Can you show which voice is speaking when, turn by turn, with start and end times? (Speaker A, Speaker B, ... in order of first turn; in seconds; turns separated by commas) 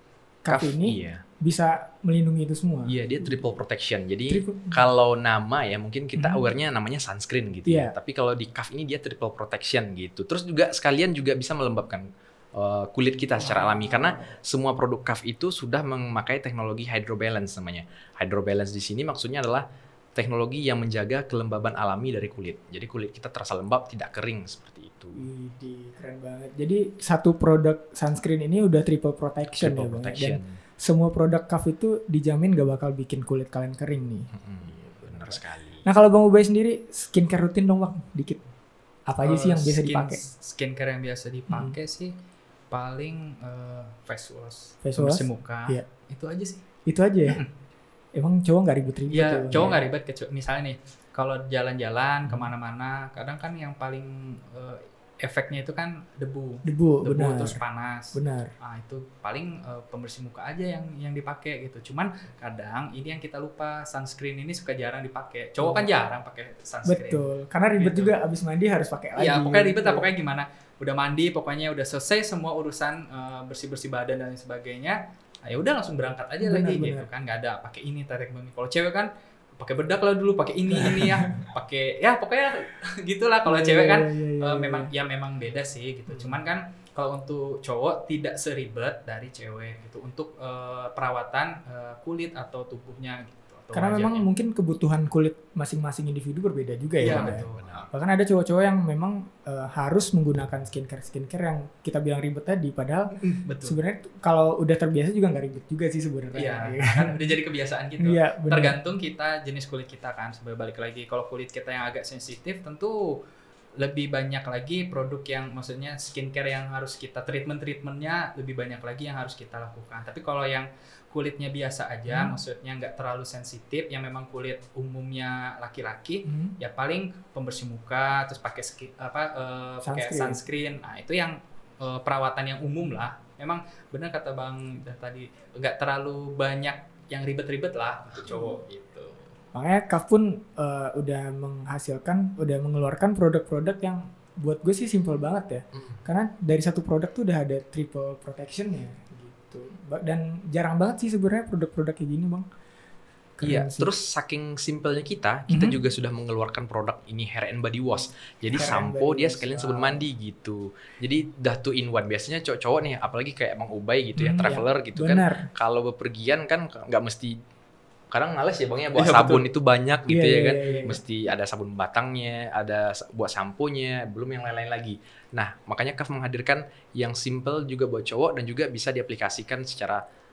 Speaker A: 0.4-3.6, Speaker B: 0.5-1.2, Speaker B: 2.9-25.2, Speaker A: 4.3-4.9, Speaker A: 6.2-6.4, Speaker A: 7.7-7.9, Speaker A: 13.4-14.4, Speaker A: 25.1-38.4, Speaker B: 29.5-30.6, Speaker B: 34.3-35.8, Speaker A: 39.1-40.2, Speaker C: 39.2-42.1, Speaker A: 41.5-41.8, Speaker C: 42.7-46.6, Speaker A: 44.8-45.8, Speaker A: 46.9-47.4, Speaker A: 48.1-49.9, Speaker C: 49.1-68.1, Speaker A: 56.6-57.6, Speaker A: 58.1-58.5, Speaker A: 65.6-65.9, Speaker A: 66.8-70.1, Speaker C: 69.2-94.3, Speaker A: 76.4-77.1, Speaker A: 80.7-81.4, Speaker A: 83.5-84.9, Speaker A: 93.7-107.2, Speaker C: 97.0-97.9, Speaker B: 97.0-97.9, Speaker C: 103.2-103.8, Speaker C: 106.3-113.2, Speaker A: 108.0-108.8, Speaker C: 113.8-139.3, Speaker A: 122.1-122.3, Speaker A: 126.2-126.5, Speaker A: 129.8-130.4, Speaker A: 138.3-138.6, Speaker A: 139.5-152.5, Speaker A: 153.4-153.9, Speaker B: 153.4-167.4, Speaker A: 155.5-155.8, Speaker A: 158.5-160.1, Speaker A: 164.2-165.5, Speaker B: 168.1-180.0, Speaker C: 168.9-169.4, Speaker A: 170.1-171.0